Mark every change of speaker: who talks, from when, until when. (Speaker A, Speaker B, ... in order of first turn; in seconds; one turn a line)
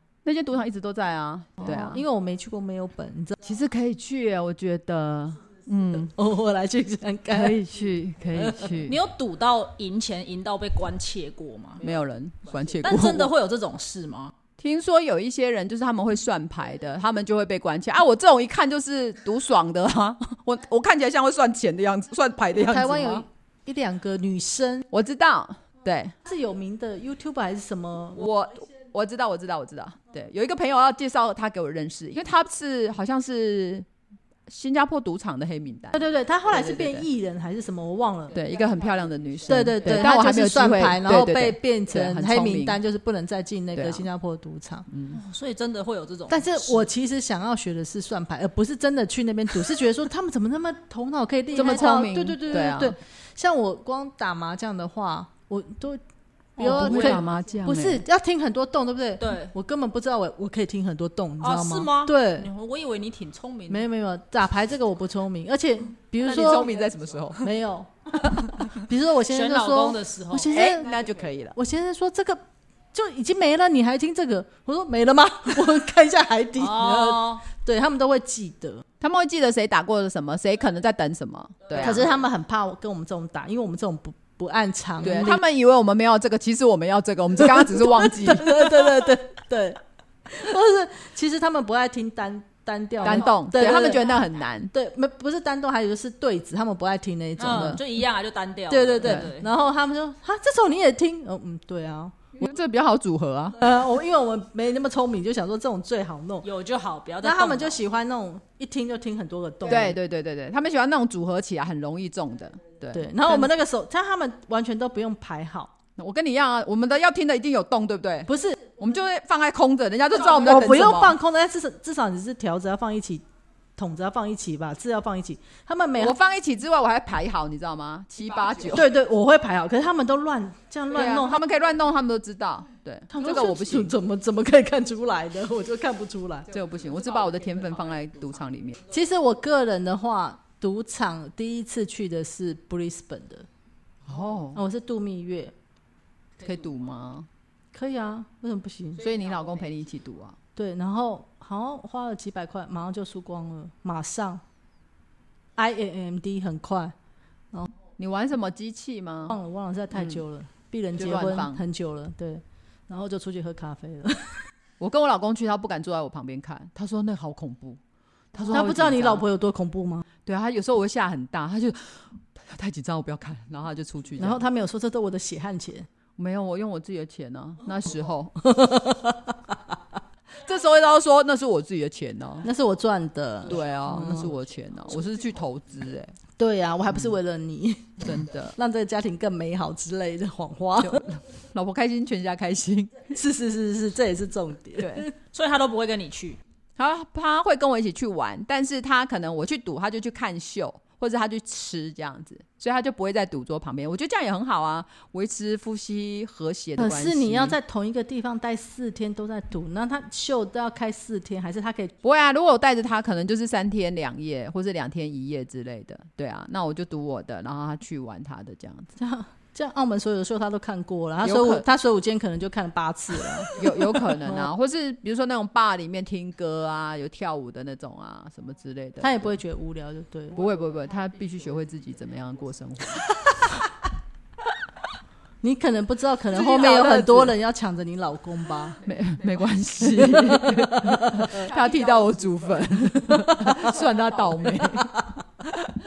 Speaker A: 0.2-2.0
Speaker B: 1.6-3.4
Speaker A: 3.4-6.1
Speaker B: 6.2-7.6
Speaker A: 7.3-9.0
Speaker C: 8.8-11.8
Speaker A: 11.8-13.3
Speaker C: 12.8-14.3
Speaker A: 14.6-23.2
Speaker B: 22.5-24.9
Speaker A: 24.9-26.1
Speaker B: 26.3-28.3
Speaker A: 28.1-33.9
Speaker A: 34.5-36.0
Speaker B: 36.0-38.4
Speaker A: 36.5-37.1
Speaker A: 38.3-42.8
Speaker B: 39.5-44.9
Speaker A: 43.8-44.1
Speaker A: 44.9-45.2
Speaker C: 45.1-46.9
Speaker B: 46.3-56.0
Speaker A: 51.5-53.0
Speaker B: 56.6-62.5
Speaker A: 56.6-58.0
Speaker C: 59.2-59.5
Speaker C: 61.4-63.9
Speaker B: 63.7-66.7
Speaker A: 66.2-67.5
Speaker B: 67.4-70.9
Speaker C: 69.3-70.5
Speaker A: 70.5-71.6
Speaker B: 71.5-72.4
Speaker B: 72.9-78.8
Speaker C: 76.6-77.4
Speaker A: 79.0-82.1
Speaker B: 81.7-85.4
Speaker A: 85.0-88.9
Speaker B: 87.4-94.1
Speaker A: 93.0-94.7
Speaker B: 94.7-97.9
Speaker C: 97.4-99.5
Speaker B: 98.7-102.1
Speaker A: 102.4-103.6
Speaker B: 103.6-106.5
Speaker C: 106.4-107.8
Speaker B: 107.2-110.0
Speaker A: 109.7-113.5
Speaker B: 112.9-115.7
Speaker A: 116.0-121.2
Speaker B: 118.3-118.6
Speaker B: 120.2-123.2
Speaker B: 123.8-126.2
Speaker A: 126.0-128.9
Speaker B: 128.7-131.4
Speaker A: 130.9-133.9
Speaker B: 133.1-136.5
Speaker A: 136.5-138.8
Speaker B: 138.9-143.5
Speaker A: 144.1-144.6
Speaker B: 144.6-145.5
Speaker A: 146.4-147.3
Speaker B: 147.7-149.0
Speaker A: 149.0-150.4
Speaker B: 150.6-154.4
Speaker B: 155.6-156.9
Speaker A: 158.0-159.3
Speaker B: 159.3-164.5
Speaker A: 159.9-160.2
Speaker A: 161.0-161.6
Speaker A: 164.8-167.8
Speaker A: 168.3-169.2
Speaker B: 168.5-170.1
Speaker A: 170.3-174.4
Speaker B: 174.2-175.9
Speaker A: 176.2-178.4
Speaker B: 178.4-179.6
Speaker A: 180.4-182.5
Speaker B: 182.4-184.3
Speaker A: 183.5-186.2
Speaker B: 186.4-191.1
Speaker A: 188.0-188.6
Speaker A: 190.8-193.0
Speaker B: 193.1-195.1
Speaker A: 194.8-195.0
Speaker C: 195.3-196.4
Speaker A: 196.8-207.6
Speaker B: 206.8-211.9
Speaker A: 212.0-218.9
Speaker B: 219.0-224.4
Speaker A: 221.2-221.7
Speaker A: 223.5-229.3
Speaker B: 229.0-230.4
Speaker A: 230.3-233.6
Speaker B: 235.4-238.8
Speaker A: 236.3-237.3
Speaker A: 238.8-245.1
Speaker B: 239.9-241.5
Speaker B: 243.1-243.7